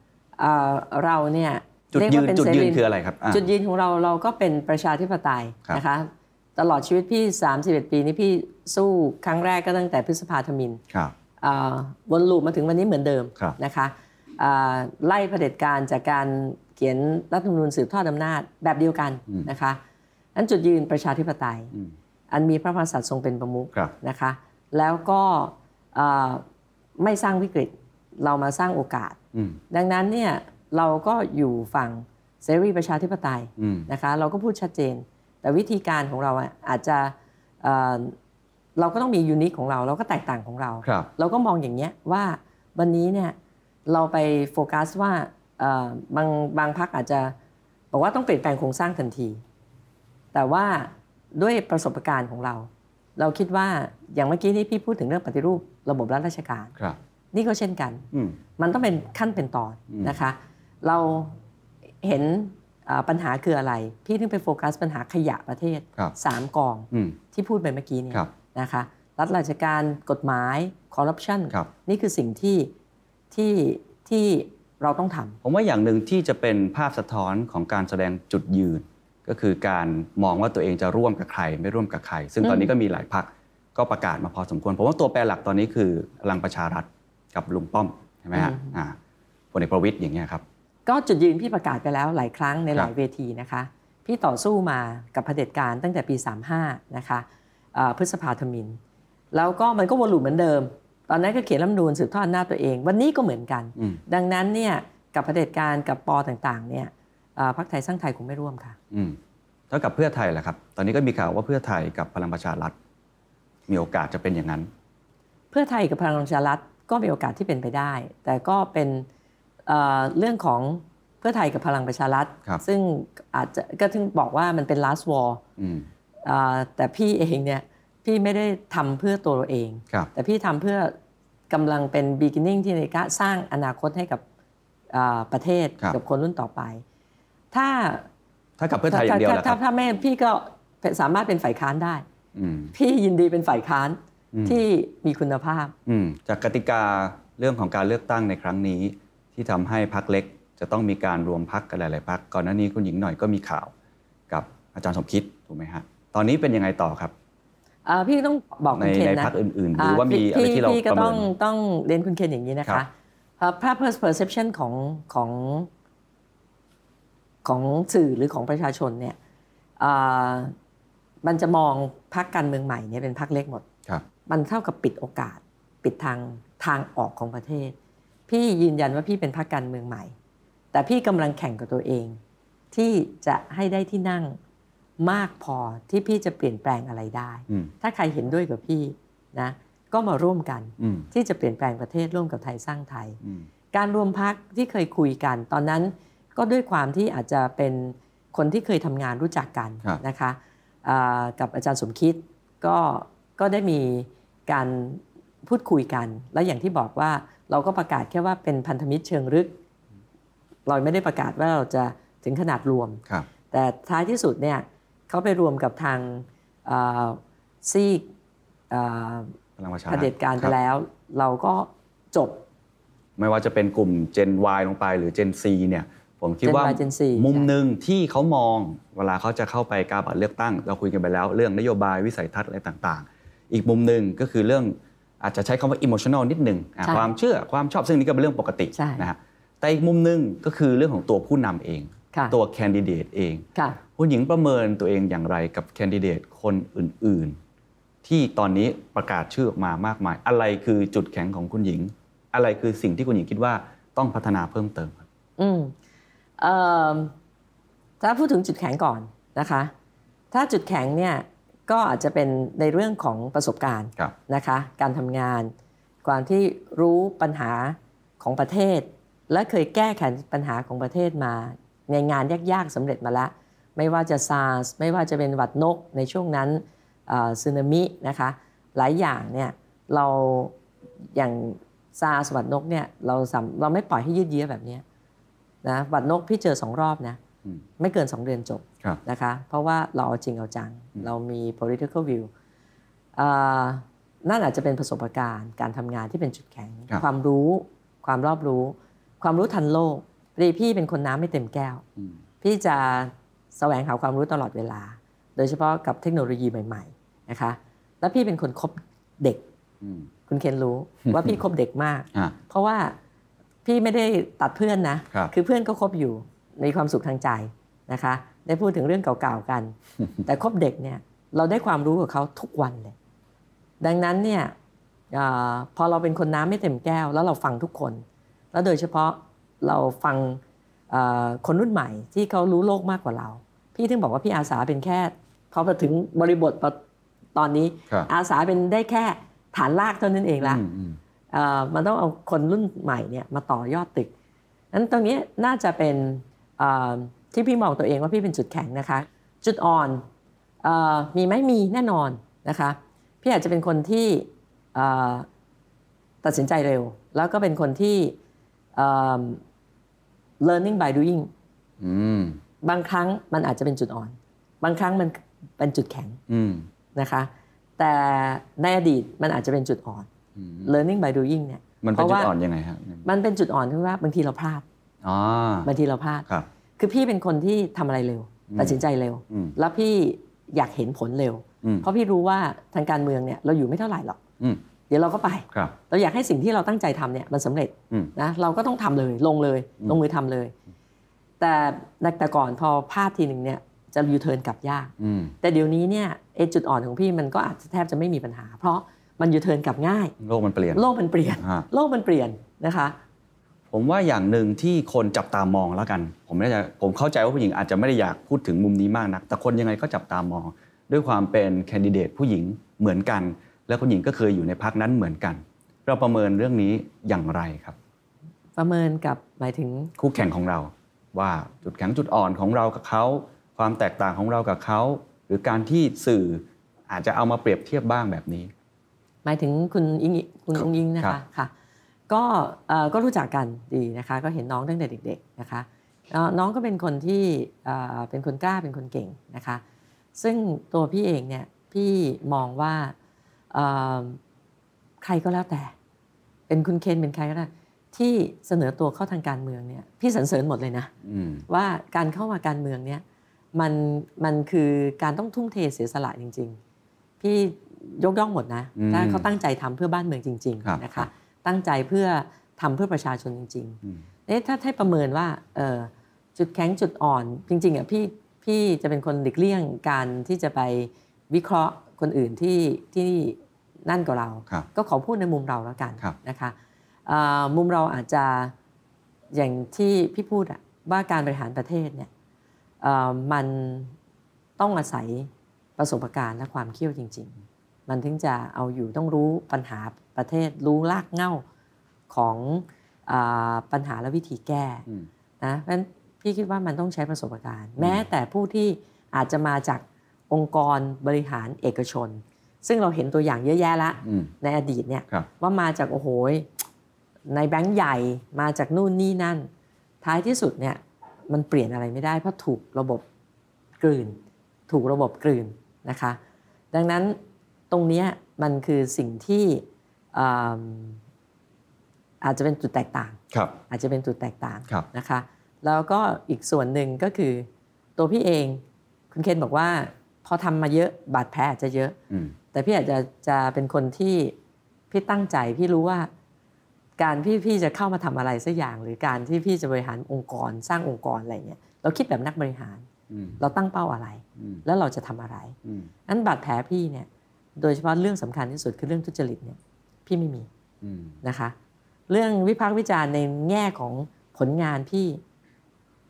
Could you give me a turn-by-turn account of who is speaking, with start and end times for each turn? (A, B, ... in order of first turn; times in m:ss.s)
0:00.4-0:10.8 A
0:01.9-0:03.5 B
0:11.4-0:19.8 A
0:20.3-0:21.7 A
0:22.3-0:26.4 A
0:27.0-0:29.2 A
0:29.3-0:29.6 B
0:29.7-0:38.2 A
0:33.6-0:33.9 B
0:38.8-0:43.3 A
0:40.8-0:41.1 B
0:43.8-0:47.3 A
0:47.9-0:49.4 A
0:50.3-0:56.7 A
0:57.3-0:58.0 A
0:58.1-0:58.4 B
0:58.6-1:01.4 A
1:02.0-1:12.7 A
1:06.9-1:07.2 B
1:13.3-1:15.4 A
1:15.4-1:29.0 B
1:22.4-1:22.7 A
1:28.3-1:28.8 A
1:29.5-1:30.4 B
1:30.8-1:38.8 A
1:39.3-1:48.8 A
1:48.9-1:49.2 B
1:49.7-1:52.7 B
1:53.7-1:54.7 B
1:55.5-1:59.1 A
1:59.6-2:05.4 A
2:05.6-2:05.9 B
2:06.2-2:10.9 A
2:11.5-2:14.2 A
2:14.9-2:16.8 A
2:17.5-2:18.1 A
2:18.6-2:19.6 B
2:18.7-2:22.0 A
2:22.3-2:22.7 B
2:22.7-2:25.7 A
2:24.3-2:24.6 B
2:25.8-2:33.7 B
2:34.3-2:37.1 B
2:37.8-2:45.7 A
2:38.7-2:41.3 B
2:47.4-2:49.2 A
2:49.8-2:50.5 A
2:51.2-2:53.6 A
2:54.3-2:57.7 A
2:58.3-3:00.1 A
3:00.7-3:02.2 A
3:02.7-3:04.4 A
3:05.0-3:13.2 A
3:10.8-3:11.1 B
3:13.2-3:13.5 B
3:13.7-3:29.6 A
3:30.6-3:38.1 A
3:38.7-3:39.4 A
3:39.6-3:40.5 B
3:39.9-3:42.4 A
3:43.2-4:07.4 B
3:46.4-3:47.5 A
3:56.8-3:57.1 A
3:58.7-3:59.1 A
4:08.0-4:15.0 B
4:15.4-4:15.7 A
4:16.4-4:17.1 A
4:18.0-4:19.7 A
4:20.3-4:25.5 A
4:26.0-4:40.6 A
4:41.1-4:44.8 A
4:45.6-4:47.2 A
4:47.8-4:52.3 A
4:53.2-5:01.8 A
5:02.4-5:09.4 A
5:09.8-5:10.1 B
5:10.3-5:13.0 A
5:11.1-5:11.4 B
5:13.6-5:22.9 A
5:23.8-5:24.5 A
5:25.1-5:36.8 A
5:37.3-5:40.6 A
5:40.4-5:41.0 B
5:41.3-5:44.1 A
5:44.7-5:50.0 A
5:50.6-5:55.2 A
5:56.2-5:58.2 A
5:58.7-5:59.4 A
6:00.4-6:01.3 A
6:01.8-6:02.4 B
6:02.6-6:06.2 A
6:06.3-6:06.7 B
6:06.9-6:10.1 A
6:10.4-6:10.7 B
6:10.6-6:12.3 A
6:11.8-6:13.0 B
6:13.0-6:14.6 A
6:15.0-6:15.7 B
6:15.6-6:16.2 A
6:16.8-6:24.2 A
6:18.5-6:18.8 B
6:19.3-6:19.5 B
6:24.9-6:30.5 A
6:31.4-6:40.1 A
6:35.0-6:35.3 B
6:40.2-6:40.8 B
6:40.7-6:43.0 A
6:41.4-6:41.6 B
6:43.7-6:57.8 B
6:58.6-6:59.9 A
7:00.0-7:08.5 B
7:09.2-7:11.5 A
7:10.6-7:11.2 B
7:12.1-7:19.6 A
7:20.2-7:22.9 A
7:23.5-7:24.2 A
7:25.0-7:25.7 A
7:26.5-7:30.9 A
7:31.0-7:31.4 B
7:31.5-7:33.0 A
7:33.5-7:36.6 A
7:37.2-7:56.5 A
7:38.8-7:39.2 B
7:40.6-7:41.1 B
7:57.0-7:58.5 A
7:59.3-8:02.1 A
8:02.8-8:03.9 A
8:04.6-8:11.4 A
8:12.1-8:14.8 A
8:15.4-8:26.5 A
8:17.8-8:18.0 B
8:24.0-8:24.3 B
8:27.3-8:29.5 A
8:30.0-8:33.0 A
8:33.8-8:34.2 A
8:34.7-8:36.2 A
8:36.7-8:37.2 A
8:37.7-8:41.0 A
8:42.2-8:52.0 A
8:43.3-8:43.6 B
8:52.5-8:54.3 A
8:54.9-8:56.1 A
8:57.0-9:02.8 A
9:03.1-9:03.4 B
9:03.4-9:05.6 A
9:06.1-9:10.5 A
9:10.8-9:11.2 B
9:11.2-9:11.5 A
9:12.1-9:15.2 A